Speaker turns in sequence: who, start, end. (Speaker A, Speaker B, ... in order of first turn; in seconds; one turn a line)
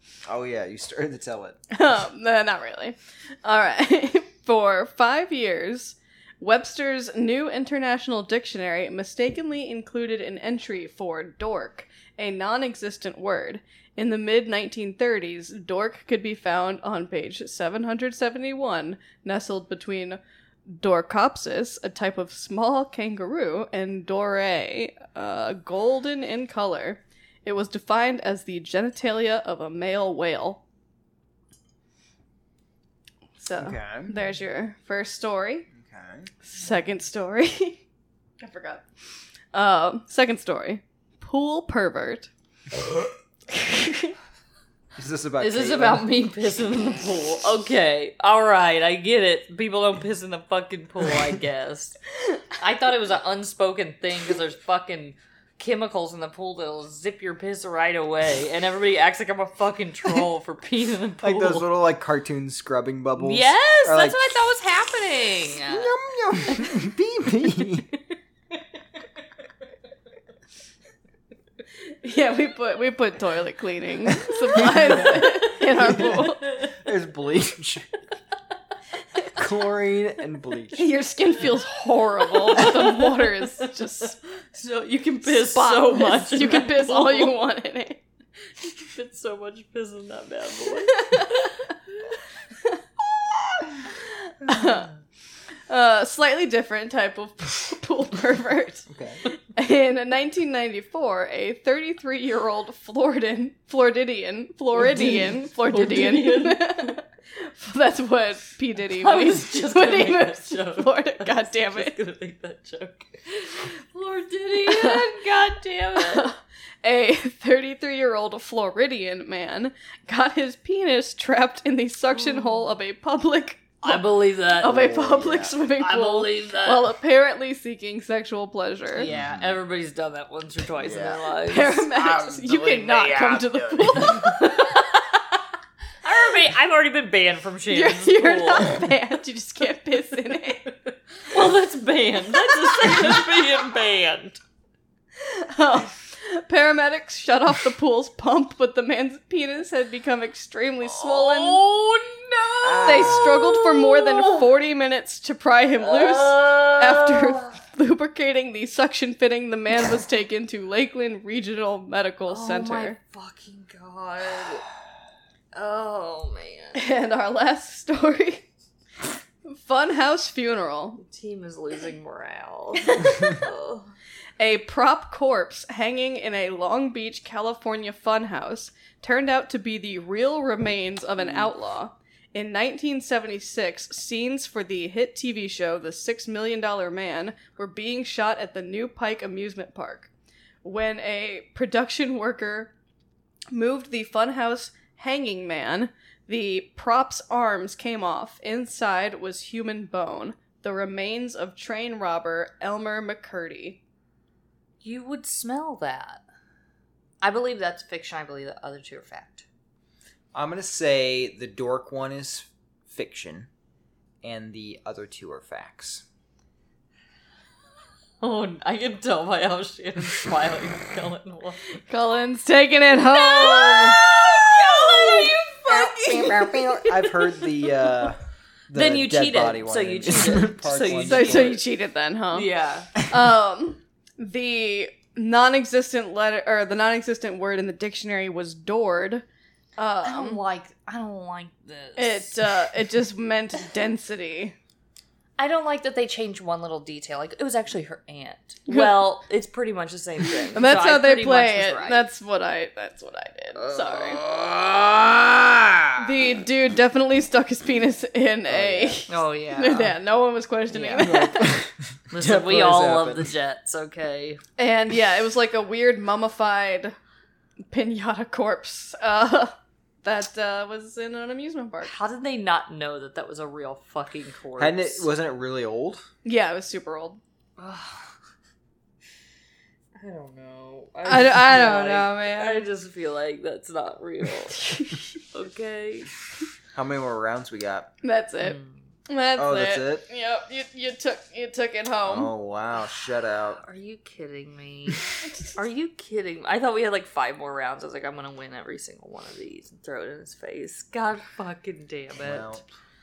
Speaker A: 0.3-1.6
Speaker B: 1.7-30.6
Speaker B: 33.4-35.7
Speaker A: 33.6-34.1
Speaker A: 35.7-36.3
Speaker B: 36.4-37.8
Speaker B: 38.4-38.9
Speaker B: 39.5-42.3
Speaker B: 43.5-44.1
Speaker A: 45.0-46.1
Speaker C: 45.4-52.0
Speaker C: 52.6-61.7
Speaker A: 61.2-64.4
Speaker C: 63.2-65.9
Speaker A: 65.7-67.9
Speaker B: 72.0-76.4
Speaker A: 74.2-77.9
Speaker A: 79.3-80.9
Speaker B: 80.7-84.2
Speaker C: 82.4-83.7
Speaker C: 84.5-87.3
Speaker B: 85.2-88.0
Speaker C: 88.8-91.6
Speaker B: 90.9-91.5
Speaker B: 94.3-94.9
Speaker B: 95.7-112.0
Speaker A: 98.9-99.2
Speaker C: 104.7-107.0
Speaker C: 109.0-116.3
Speaker B: 114.7-115.2
Speaker B: 116.0-124.0
Speaker C: 122.1-122.7
Speaker C: 123.8-125.0
Speaker B: 124.6-129.1
Speaker A: 124.7-125.5
Speaker C: 125.8-126.8
Speaker C: 128.9-132.2
Speaker A: 129.0-129.6
Speaker A: 130.8-131.2
Speaker B: 131.4-134.9
Speaker A: 132.0-134.0
Speaker C: 134.0-135.0
Speaker C: 136.0-138.9
Speaker B: 137.7-140.7
Speaker C: 140.7-144.4
Speaker B: 142.5-143.2
Speaker B: 145.2-151.6
Speaker C: 150.9-154.5
Speaker A: 152.6-153.4
Speaker B: 152.8-163.0
Speaker C: 155.8-157.6
Speaker C: 162.3-164.6
Speaker C: 165.5-166.8
Speaker B: 166.8-168.4
Speaker B: 169.5-171.0
Speaker C: 171.0-173.9
Speaker B: 172.8-173.4
Speaker B: 174.4-190.1
Speaker B: 190.6-192.7
Speaker B: 193.5-203.8
Speaker C: 204.8-206.2
Speaker C: 207.2-209.5
Speaker A: 210.3-213.5
Speaker A: 214.2-216.1
Speaker C: 218.2-221.6
Speaker B: 221.9-224.1
Speaker C: 223.1-225.8
Speaker A: 224.6-231.6
Speaker B: 224.8-226.8
Speaker C: 228.7-231.6
Speaker B: 231.0-239.2
Speaker C: 232.3-232.9
Speaker B: 239.8-240.4
Speaker C: 240.0-242.5
Speaker B: 242.0-244.6
Speaker C: 245.4-252.1
Speaker B: 248.7-248.9
Speaker B: 250.5-254.2
Speaker C: 253.6-256.0
Speaker B: 256.0-261.7
Speaker A: 258.5-259.0
Speaker C: 259.1-260.0
Speaker C: 260.7-261.1
Speaker A: 261.0-263.3
Speaker C: 262.1-264.4
Speaker B: 264.6-266.9
Speaker B: 267.7-271.9
Speaker C: 271.9-275.1
Speaker A: 274.6-276.1
Speaker B: 276.2-277.2
Speaker C: 277.6-278.1
Speaker C: 280.0-284.7
Speaker B: 281.1-282.6
Speaker B: 284.6-285.0
Speaker C: 285.3-286.1
Speaker A: 286.7-287.9
Speaker B: 288.0-292.3
Speaker C: 288.4-288.9
Speaker A: 289.4-290.0
Speaker A: 292.1-293.6
Speaker C: 293.6-302.6
Speaker B: 295.2-295.5
Speaker A: 302.2-302.6